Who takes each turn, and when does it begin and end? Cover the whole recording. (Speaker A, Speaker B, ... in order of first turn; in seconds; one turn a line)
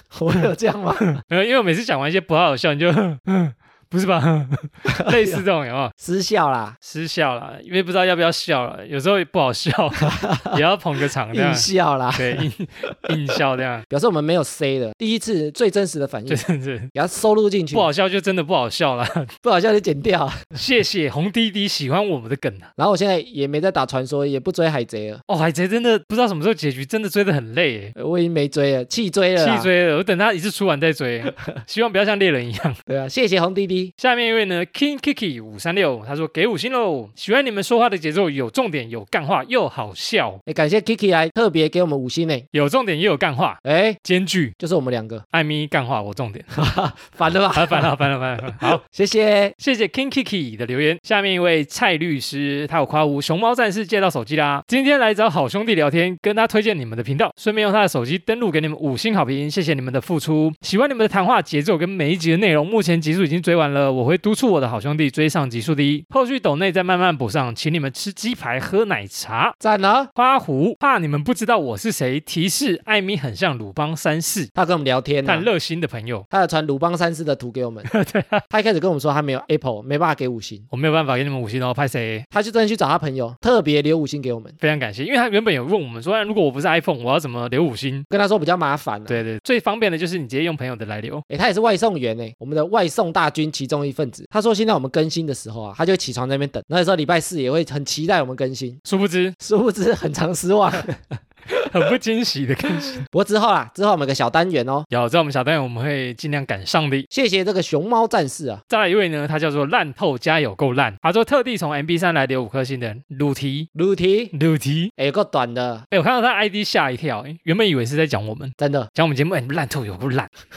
Speaker A: 0.1-1.2
Speaker B: 1.2-5.9
Speaker A: 4.9-5.4
Speaker A: 6.0-6.8
Speaker B: 6.8-13.9
Speaker A: 10.0-10.6
Speaker A: 11.3-12.5
Speaker A: 13.9-17.9
Speaker B: 16.3-16.9
Speaker B: 17.7-19.3
Speaker A: 19.4-20.5
Speaker B: 20.6-22.7
Speaker A: 22.8-25.2
Speaker B: 25.3-27.9
Speaker A: 28.0-29.7
Speaker B: 29.4-32.8
Speaker A: 32.9-33.9
Speaker B: 34.0-40.4
Speaker A: 40.5-42.5
Speaker B: 42.5-44.5
Speaker A: 43.6-44.0
Speaker A: 44.6-45.2
Speaker B: 45.3-46.5
Speaker A: 46.5-49.5
Speaker B: 47.5-48.8
Speaker B: 49.6-69.6
Speaker A: 69.6-70.1
Speaker B: 70.2-74.5
Speaker A: 74.5-75.5
Speaker B: 75.2-76.3
Speaker A: 76.3-77.9
Speaker B: 77.9-78.4
Speaker A: 78.5-80.7
Speaker B: 80.7-82.3
Speaker A: 82.3-84.6
Speaker B: 84.6-88.1
Speaker A: 88.1-89.2
Speaker B: 89.1-91.2
Speaker A: 91.3-98.8
Speaker B: 98.8-99.4
Speaker A: 99.4-101.7
Speaker B: 101.7-103.0
Speaker A: 103.1-104.9
Speaker B: 104.9-107.1
Speaker A: 107.1-108.6
Speaker B: 108.7-113.7
Speaker A: 113.8-114.3
Speaker B: 114.3-114.9
Speaker A: 115.0-115.9
Speaker B: 115.9-120.3
Speaker A: 118.6-118.9